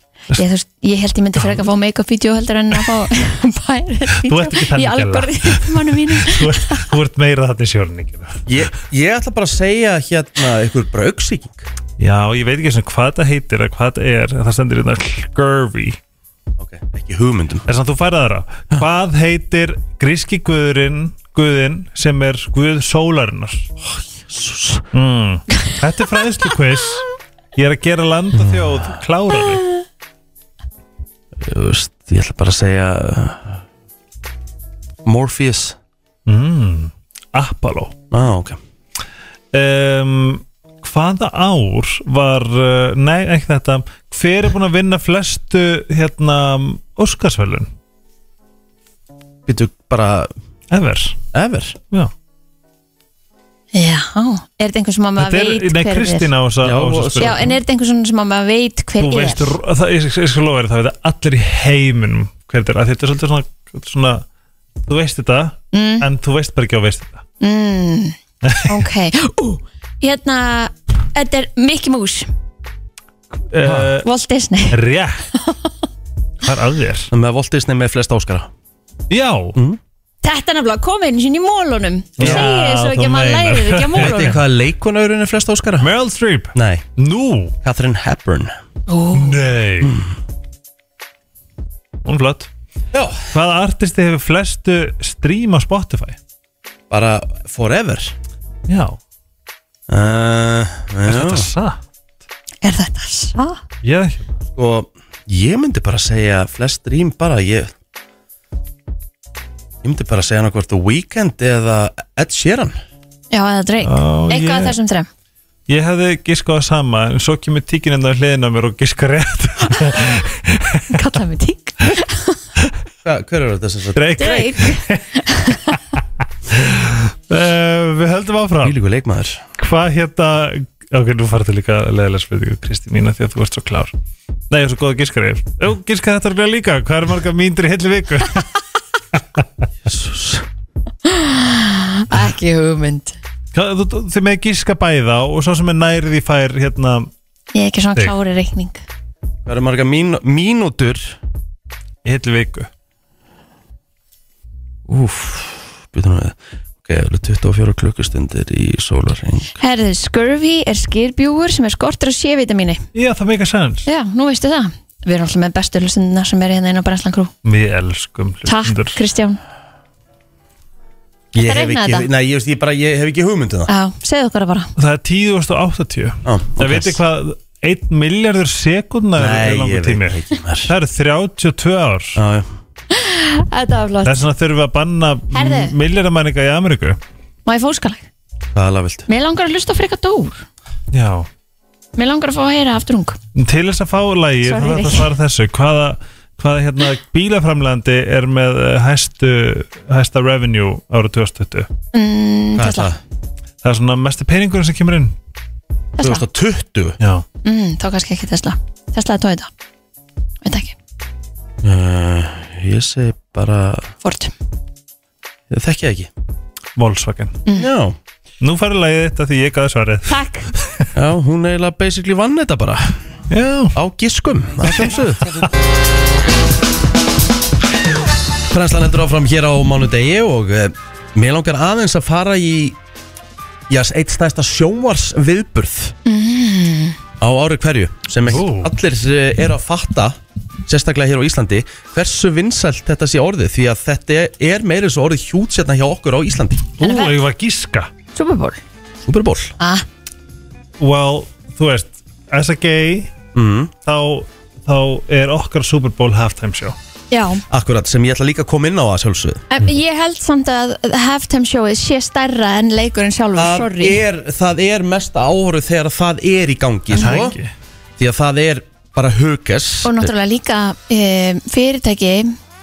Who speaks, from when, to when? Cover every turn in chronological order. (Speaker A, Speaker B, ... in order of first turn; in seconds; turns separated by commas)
Speaker A: 0.3-6.9, Speaker B: 1.4-1.7, Speaker B: 4.2-8.4, Speaker C: 8.5-11.7, Speaker B: 12.0-16.0, Speaker C: 16.6-17.7, Speaker B: 17.7-23.7, Speaker C: 23.8-24.9, Speaker B: 24.9-29.7, Speaker C: 28.3-28.9, Speaker C: 31.4-33.6, Speaker C: 35.0-35.8, Speaker B: 36.3-38.0, Speaker C: 38.1-38.6, Speaker B: 39.5-47.7, Speaker C: 49.5-50.3, Speaker B: 50.7-51.2, Speaker C: 51.3-51.8, Speaker A: 53.7-56.3, Speaker B: 55.2-57.5, Speaker C: 56.6-57.5, Speaker A: 57.2-59.5, Speaker B: 59.0-64.2, Speaker B: 64.9-67.2, Speaker A: 65.7-66.0, Speaker A: 67.4-72.3, Speaker B: 68.4-68.8, Speaker B: 73.5-74.1, Speaker C: 73.6-73.9, Speaker A: 74.0-74.8, Speaker B: 74.7-75.3, Speaker B: 76.4-77.1, Speaker C: 77.1-78.5, Speaker B: 79.1-79.6, Speaker A: 80.2-84.4, Speaker B: 82.2-84.4, Speaker C: 82.2-82.5, Speaker C: 84.0-85.9, Speaker B: 85.8-87.5, Speaker C: 86.5-86.9, Speaker C: 87.6-88.5, Speaker A: 88.9-89.4, Speaker B: 89.2-90.0, Speaker B: 92.0-92.5, Speaker C: 92.9-93.3, Speaker B: 93.3-96.2, Speaker C: 96.9-98.2, Speaker B: 98.7-99.0, Speaker C: 99.9-101.5, Speaker B: 101.1-101.8, Speaker A: 102.6-103.6, Speaker B: 103.8-104.3, Speaker C: 104.6-107.7, Speaker C: 109.8-112.8, Speaker A: 113.3-115.1, Speaker B: 113.8-114.8, Speaker B: 115.7-120.9, Speaker A: 120.9-122.4, Speaker C: 123.0-124.5, Speaker B: 124.0-125.7, Speaker A: 124.2-125.6, Speaker B: 126.5-128.8, Speaker C: 128.6-129.4, Speaker B: 129.6-133.9, Speaker B: 134.5-138.5, Speaker C: 139.8-140.5, Speaker A: 141.1-143.2, Speaker B: 143.5-147.1, Speaker A: 147.5-148.8, Speaker C: 149.5-151.2, Speaker B: 152.1-152.7, Speaker C: 154.9-159.6, Speaker A: 159.6-162.8, Speaker B: 162.9-163.9, Speaker A: 163.9-167.3, Speaker B: 167.4-169.0, Speaker A: 168.5-169.4, Speaker C: 171.3-173.7, Speaker A: 171.4-172.1, Speaker A: 173.7-174.7, Speaker B: 174.8-182.2, Speaker C: 176.2-177.0, Speaker C: 179.2-180.7, Speaker C: 182.2-182.5, Speaker A: 182.9-184.2, Speaker B: 184.1-187.0, Speaker A: 185.3-185.7, Speaker A: 187.5-188.1, Speaker C: 188.5-189.1, Speaker A: 189.1-190.4, Speaker B: 190.9-191.3, Speaker A: 192.0-193.2, Speaker B: 193.4-201.7, Speaker A: 194.4-195.1, Speaker A: 201.9-202.9, Speaker C: 202.6-203.0, Speaker B: 203.6-205.2, Speaker A: 206.0-206.2, Speaker C: 206.0-207.0, Speaker B: 207.0-207.2, Speaker A: 207.4-209.5, Speaker A: 210.4-210.8, Speaker C: 211.6-213.9, Speaker A: 214.0-214.3, Speaker C: 215.5-216.1, Speaker B: 216.8-217.4, Speaker C: 217.5-218.0, Speaker B: 218.4-220.9, Speaker A: 220.1-220.5, Speaker C: 220.9-222.9, Speaker B: 223.3-223.8, Speaker C: 223.7-225.3, Speaker B: 224.6-225.5, Speaker C: 228.5-232.8, Speaker C: 233.7-235.9, Speaker A: 236.1-237.0, Speaker C: 237.2-246.7, Speaker B: 238.3-238.7, Speaker B: 246.8-247.9, Speaker A: 246.8-247.2, Speaker A: 248.1-248.6, Speaker C: 249.1-249.5, Speaker A: 249.6-249.8, Speaker B: 250.8-253.1, Speaker C: 253.3-253.7, Speaker B: 253.9-256.8, Speaker A: 257.1-257.4, Speaker C: 257.5-259.4, Speaker A: 259.5-264.0, Speaker C: 263.4-267.4, Speaker B: 266.9-267.5, Speaker C: 268.0-270.1, Speaker A: 269.9-272.4